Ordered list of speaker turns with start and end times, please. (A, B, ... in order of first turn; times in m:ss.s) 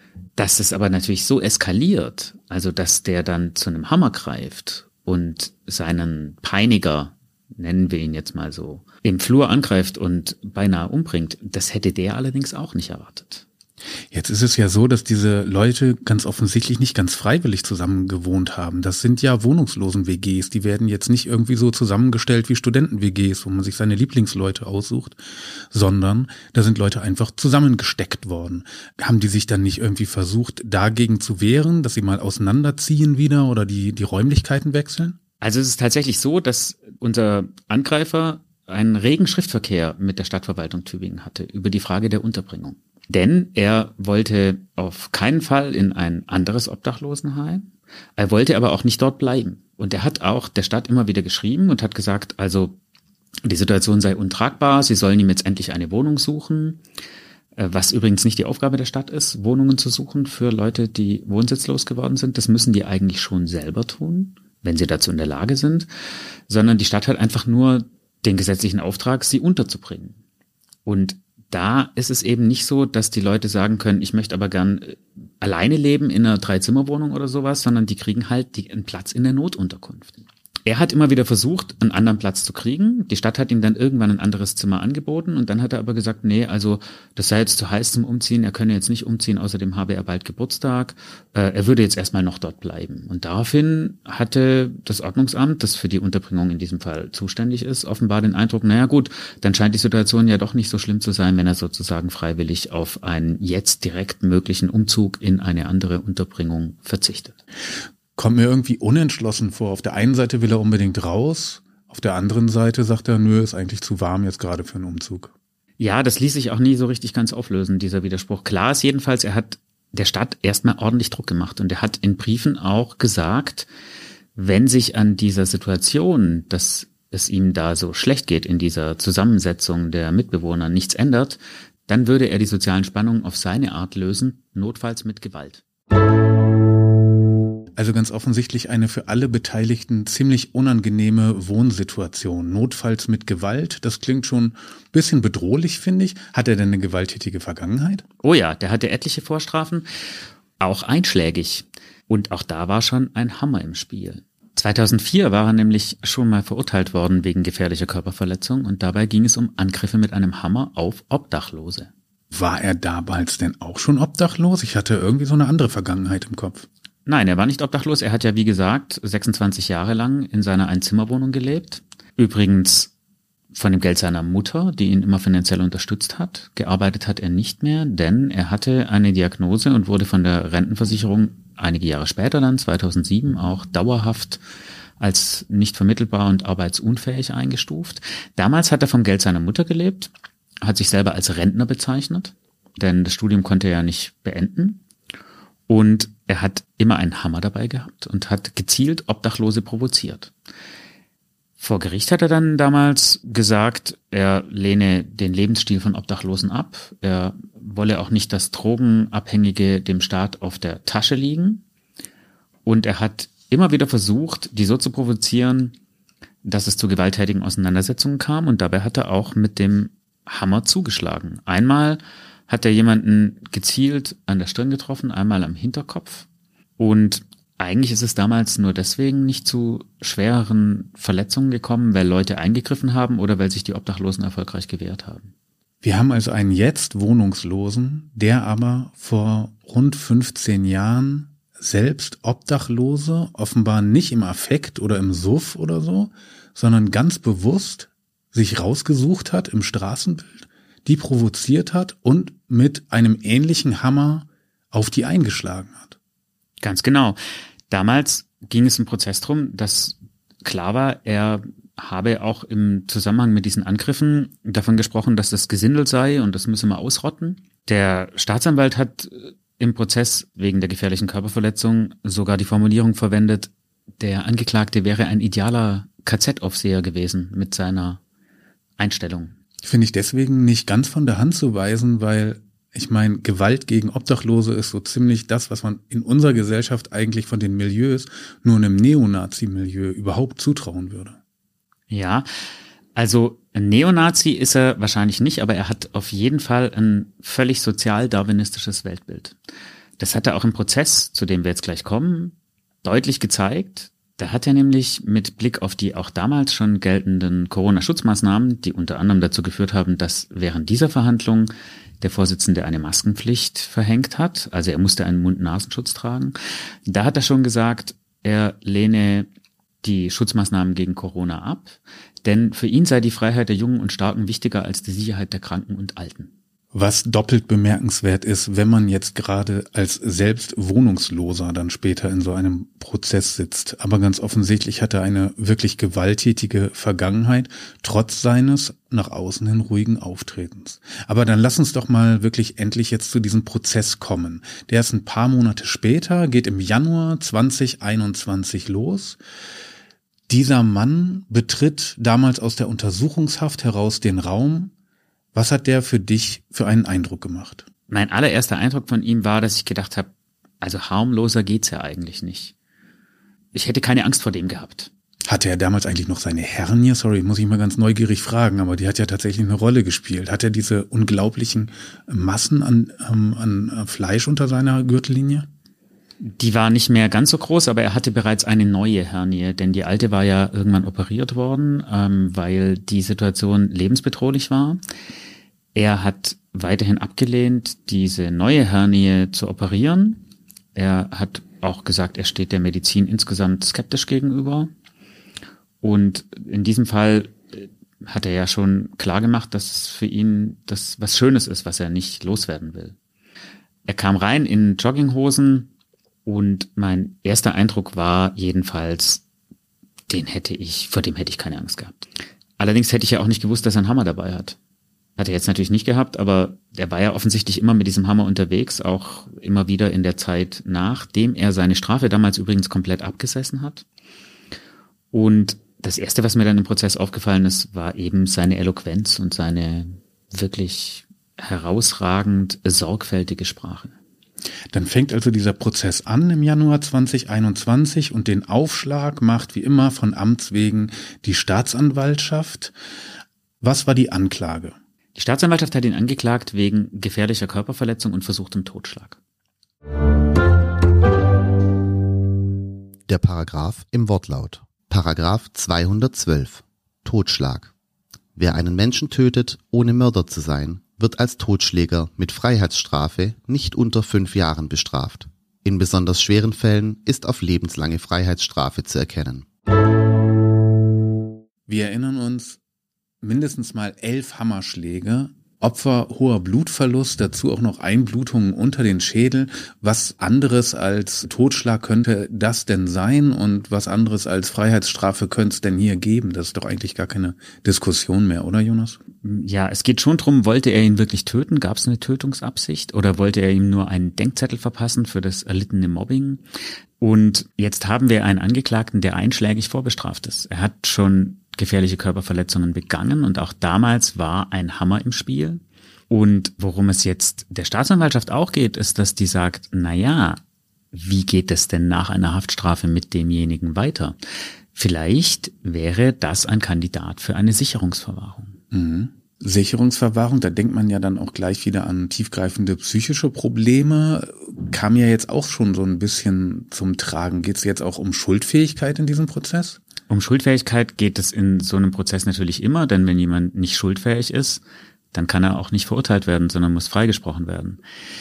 0:00.4-0:13.4 A
0:14.1-0:25.2 B
0:25.7-0:35.2 B
0:35.4-0:52.8 A
0:53.4-0:56.8 A
0:57.6-1:05.9 A
1:06.5-1:10.2 A
1:10.9-1:47.4 A
1:48.2-1:55.3 B
1:55.8-2:03.7 A
2:04.4-2:15.6 A
2:17.8-2:28.0 B
2:28.2-2:29.9 A
2:30.6-2:41.9 A
2:42.3-2:46.7 B
2:47.1-2:52.9 A
2:53.5-3:04.4 A
3:05.0-3:10.1 A
3:10.6-3:14.8 A
3:15.7-3:20.3 A
3:21.6-3:31.6 A
3:32.6-3:35.8 A
3:36.4-3:46.3 A
3:46.8-3:55.3 A
3:55.8-4:16.0 B
4:16.6-4:17.2 A
4:17.7-4:38.0 A
4:38.8-4:39.3 A
4:39.6-4:51.2 B
4:51.9-4:52.3 A
4:53.0-4:59.4 A
5:00.0-5:19.3 A
5:19.8-5:26.3 A
5:26.7-5:49.2 B
5:50.3-5:54.7 B
5:55.3-5:57.6 B
5:57.9-6:00.1 A
6:00.6-6:02.5 A
6:03.5-6:04.9 A
6:05.3-6:15.5 B
6:16.2-6:24.8 A
6:25.8-6:30.2 A
6:30.8-6:34.7 A
6:35.8-6:43.0 A
6:43.9-6:45.7 A
6:46.3-6:49.2 A
6:50.1-6:52.0 A
6:52.6-6:54.6 A
6:55.2-7:03.8 A
7:05.1-7:13.9 A
7:14.7-7:22.7 B
7:23.6-7:24.8 B
7:25.2-7:29.2 A
7:33.1-7:37.7 C
7:38.4-7:49.5 C
7:51.7-7:52.6 B
7:53.2-8:09.0 B
8:09.2-8:16.4 A
8:17.0-8:30.4 A
8:30.9-8:34.2 A
8:34.8-8:38.6 A
8:38.7-8:49.8 B
8:50.1-8:54.6 A
8:55.1-8:57.8 A